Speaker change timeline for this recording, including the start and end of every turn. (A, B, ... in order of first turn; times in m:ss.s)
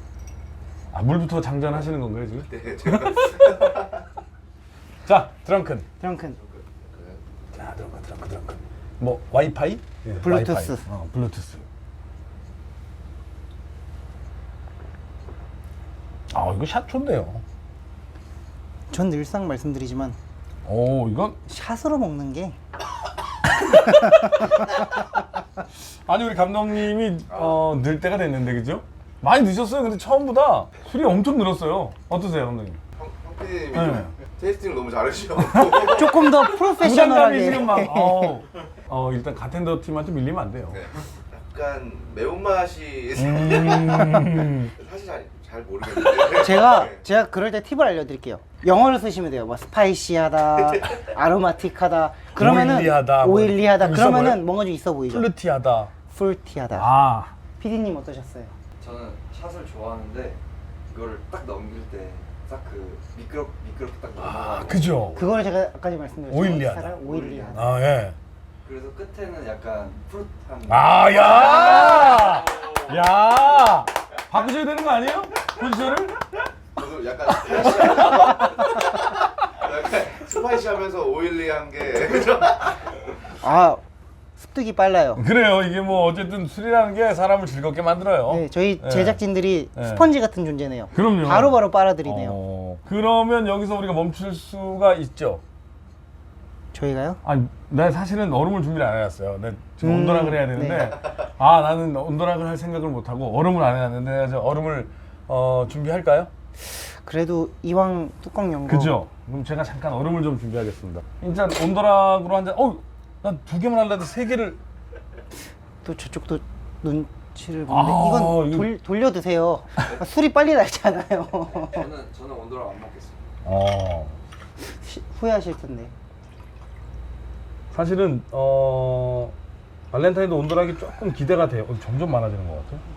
0:00.9-0:03.9 A
0:02.5-0:03.9 B
0:05.0-0:05.9 A
0:06.0-0:06.4 C
0:06.9-0:07.2 B
0:07.5-0:11.6 A
0:10.2-0:10.9 C
0:16.3-0:17.4 A
0:18.9-0:20.2 C
0:20.6-0:21.4 A
0:21.5-0:22.6 C
0:23.6-0:24.7 A
0:23.7-0:25.0 C
0:25.7-0:32.8 A
0:33.0-0:36.4 B
0:33.7-0:34.1 A
0:35.4-0:40.8 A
0:35.8-0:38.4 C
0:40.8-0:47.0 B
0:43.2-0:44.7 A
0:46.2-0:55.3 C
0:52.3-0:54.4 A
0:55.1-0:55.9 A
0:56.1-0:56.9 C
0:56.7-0:57.3 A
0:57.6-0:58.5 C
0:58.8-1:00.4 D
1:00.9-1:04.9 D
1:04.2-1:05.3 A
1:05.1-1:07.7 C
1:06.3-1:07.0 A
1:07.2-1:07.5 D
1:07.5-1:08.2 A
1:08.6-1:12.7 D
1:10.7-1:16.2 A
1:16.8-1:22.9 B
1:17.6-1:19.1 A
1:23.4-1:23.8 C
1:24.4-1:25.2 C
1:25.2-1:29.2 A
1:28.3-1:32.4 C
1:29.8-1:30.0 A
1:30.9-1:35.4 A
1:36.7-1:37.2 C
1:37.2-1:46.3 A
1:39.8-1:40.9 C
1:46.6-1:49.0 C
1:48.7-1:54.6 A
1:55.8-2:01.9 C
1:57.7-1:58.7 A
2:01.5-2:03.3 D
2:03.4-2:04.2 A
2:04.6-2:05.9 C
2:07.7-2:09.3 A
2:09.9-2:12.8 A